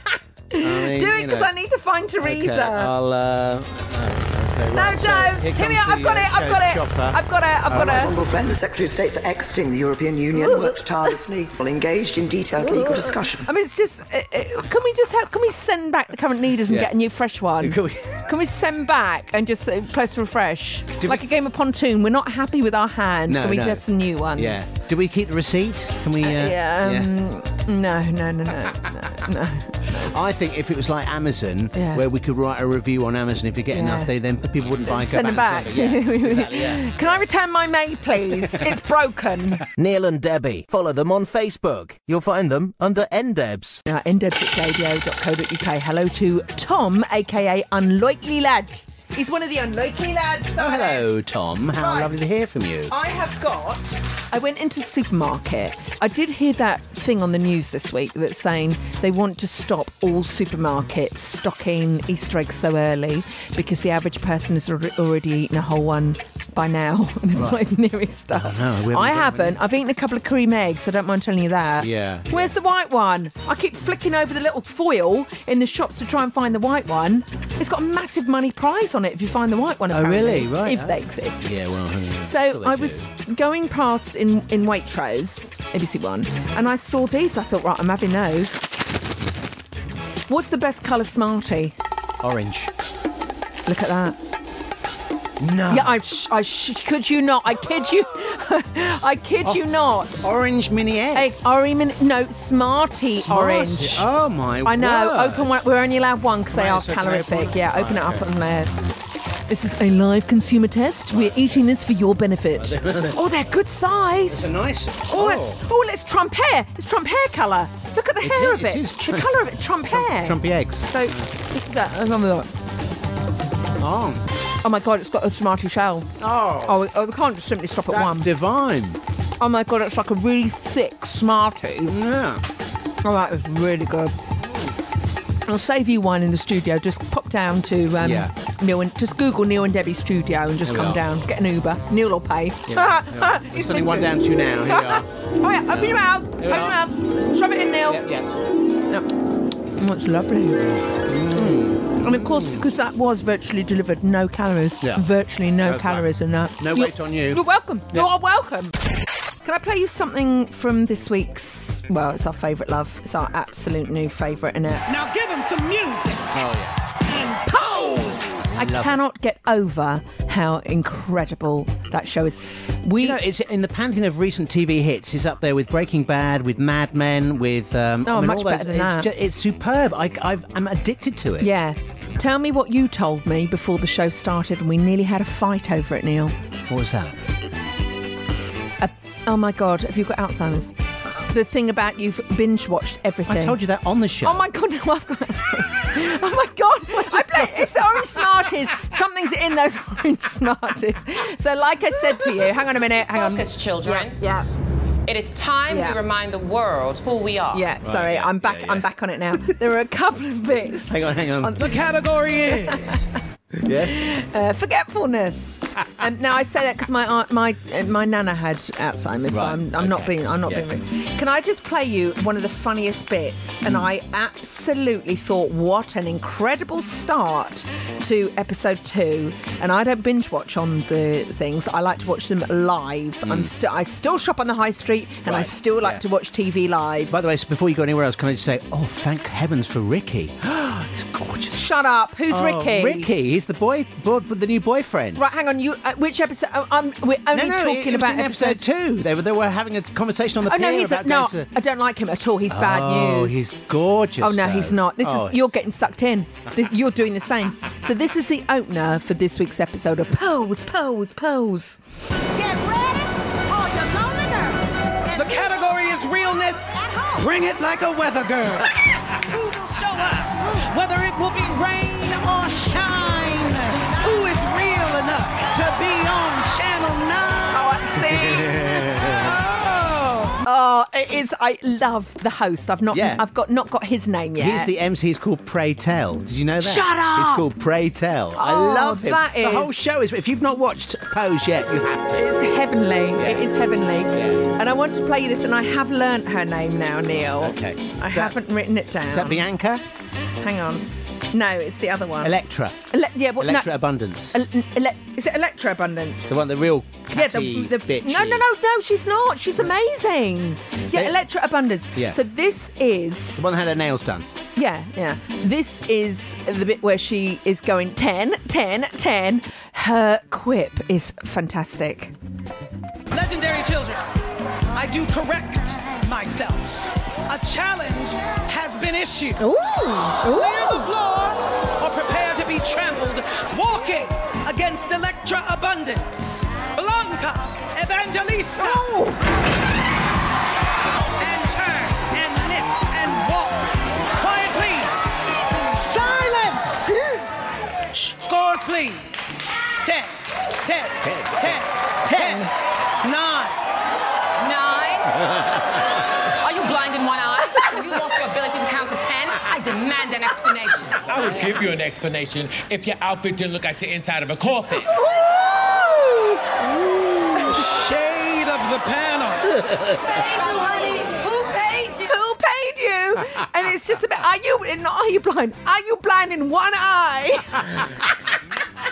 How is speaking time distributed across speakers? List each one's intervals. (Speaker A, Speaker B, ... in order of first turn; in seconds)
Speaker A: 0.5-2.9, 4.7-8.1, 10.3-10.8, 12.6-24.8, 26.2-30.1, 31.8-32.0, 33.7-34.1, 34.9-39.7, 43.9-51.1, 51.8-52.1, 52.9-81.5, 82.2-88.7, 90.3-91.7, 93.7-94.2, 95.7-100.3, 101.1-104.1, 104.7-108.7, 109.5-114.5, 115.1-122.5, 124.6-128.3, 129.4-131.9, 133.0-134.2, 135.5-148.0, 149.7-150.7, 151.3-158.8, 159.4-164.9, 167.4-173.2, 178.1-179.1, 181.4-186.3, 188.8-190.7, 191.3-193.6, 194.2-204.5, 205.7-206.0, 207.5-211.9, 212.5-213.0, 213.9-237.1, 241.5-243.1, 245.2-248.6, 250.5-253.5, 254.2-261.8, 262.4-264.6, 267.0-267.2, 277.5-279.0, 280.4-284.7, 286.6-287.5, 288.4-290.0, 291.7-299.5, 300.4-302.3, 302.9-303.8, 304.3-306.4, 307.1-313.4, 314.6-322.1, 329.4-330.9, 338.6-339.2, 364.9-366.4, 367.3-367.7, 370.7-377.9
Speaker B: 0.6-1.5, 2.2-7.2, 17.6-18.3, 23.3-27.1, 30.1-37.1, 50.6-52.9, 67.3-67.6, 68.3-69.6, 71.8-72.5, 79.9-83.1, 92.2-92.7, 95.4-96.0, 100.2-101.3, 103.1-105.6, 106.5-108.3, 111.1-111.6, 112.6-113.2, 114.3-115.6, 118.2-121.3, 123.8-124.2, 126.2-126.8, 127.9-129.0, 131.9-132.4, 138.0-138.3, 140.7-141.0, 142.7-145.1, 145.7-146.9, 147.9-148.3, 151.1-152.7, 154.8-155.1, 155.6-158.1, 166.3-166.8, 168.4-169.0, 173.0-181.5, 186.7-187.2, 193.3-194.5, 197.1-197.6, 207.8-208.9, 210.8-213.1, 213.6-214.1, 219.3-220.7, 233.2-233.5, 235.2-236.0, 237.1-241.6, 242.3-245.3, 247.3-251.5, 252.5-255.5, 270.8-279.4, 282.9-283.2, 284.4-292.2, 293.2-293.5, 294.1-294.5, 297.2-298.4, 299.1-299.8, 302.2-304.4, 306.3-308.5, 310.9-311.2, 313.4-314.3, 351.0-352.5
Speaker C: 7.7-13.5
Speaker D: 39.8-43.8
Speaker E: 164.9-166.3, 265.1-277.4, 279.3-280.4, 323.1-324.1, 324.7-329.4, 330.2-338.9, 341.2-344.9, 345.6-346.7, 348.1-349.2, 349.8-353.6, 367.6-369.2
Speaker F: 203.1-204.2, 205.1-207.7, 354.4-355.1, 356.4-361.0
Speaker G: 361.1-364.9, 368.6-369.4